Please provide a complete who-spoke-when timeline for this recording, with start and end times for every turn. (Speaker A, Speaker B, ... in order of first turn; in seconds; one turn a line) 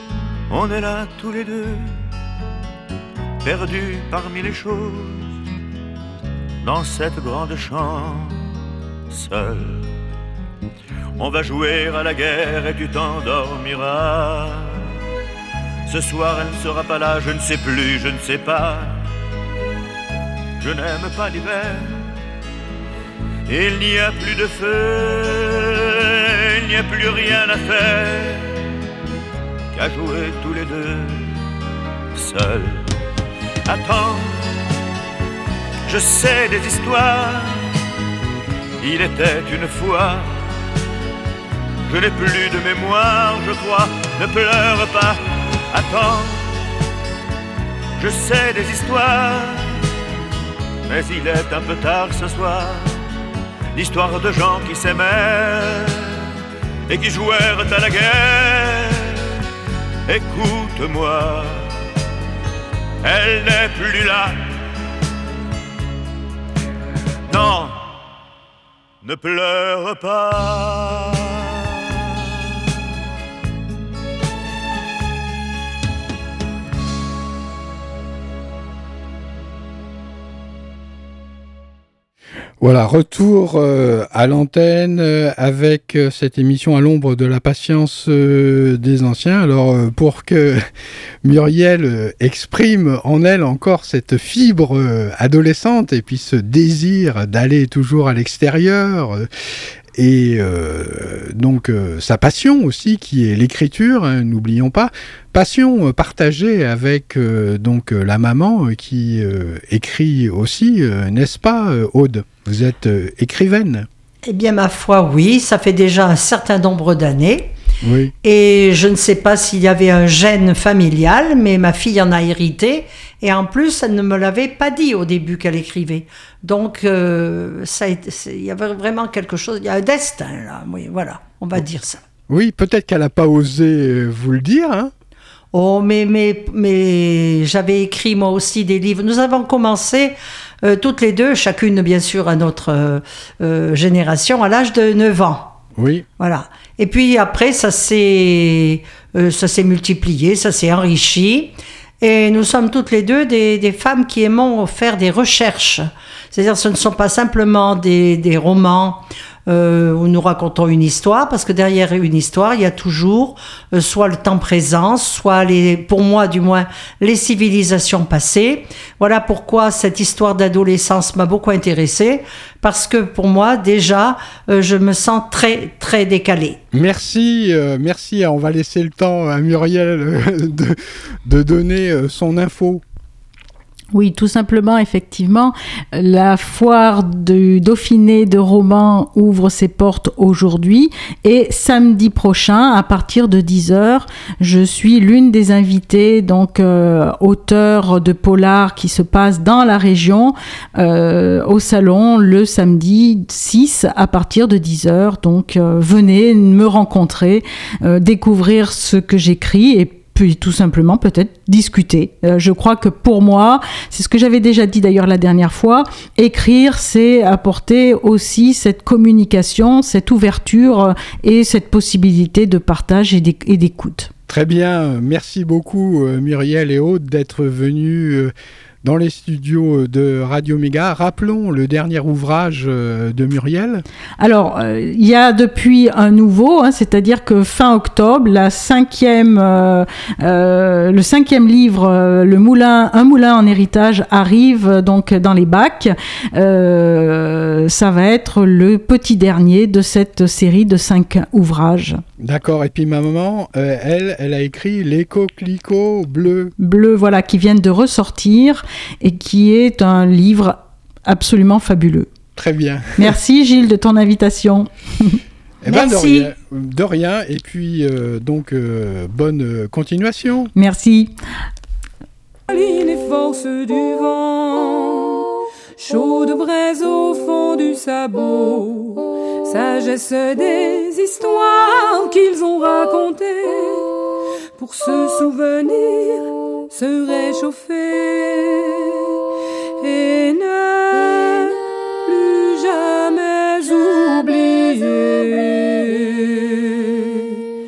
Speaker A: 0.5-1.9
Speaker A: 3.4-5.3
Speaker A: 6.6-8.5
Speaker A: 9.1-9.8
Speaker A: 11.2-14.9
Speaker A: 15.9-18.9
Speaker A: 20.6-22.0
Speaker A: 23.5-28.5
Speaker A: 29.7-31.4
Speaker A: 32.1-32.8
Speaker A: 33.7-34.5
Speaker A: 35.9-37.7
Speaker A: 38.8-40.3
Speaker A: 41.9-45.2
Speaker A: 45.7-46.5
Speaker A: 48.0-49.9
Speaker A: 50.9-53.0
Speaker A: 53.7-56.2
Speaker A: 56.9-59.4
Speaker A: 60.1-61.6
Speaker A: 63.0-64.4
Speaker A: 67.3-67.9
Speaker A: 69.0-72.3
Speaker B: 82.6-90.6
Speaker B: 91.2-99.3
Speaker B: 99.9-113.9
Speaker C: 114.2-117.5
Speaker B: 117.8-118.1
Speaker C: 118.2-132.0
Speaker B: 132.3-134.9
Speaker C: 135.5-145.6
Speaker B: 145.8-146.1
Speaker C: 146.2-176.6
Speaker B: 176.7-182.8
Speaker D: 183.9-224.1
Speaker B: 224.3-228.3
Speaker B: 228.8-233.8
Speaker D: 234.2-252.0
Speaker B: 252.2-256.5
Speaker D: 256.6-262.1
Speaker B: 262.4-263.1
Speaker D: 263.0-265.2
Speaker B: 265.6-270.5
Speaker C: 265.6-266.3
Speaker D: 270.6-271.1
Speaker E: 272.5-284.0
Speaker E: 284.6-289.1
Speaker E: 289.8-297.4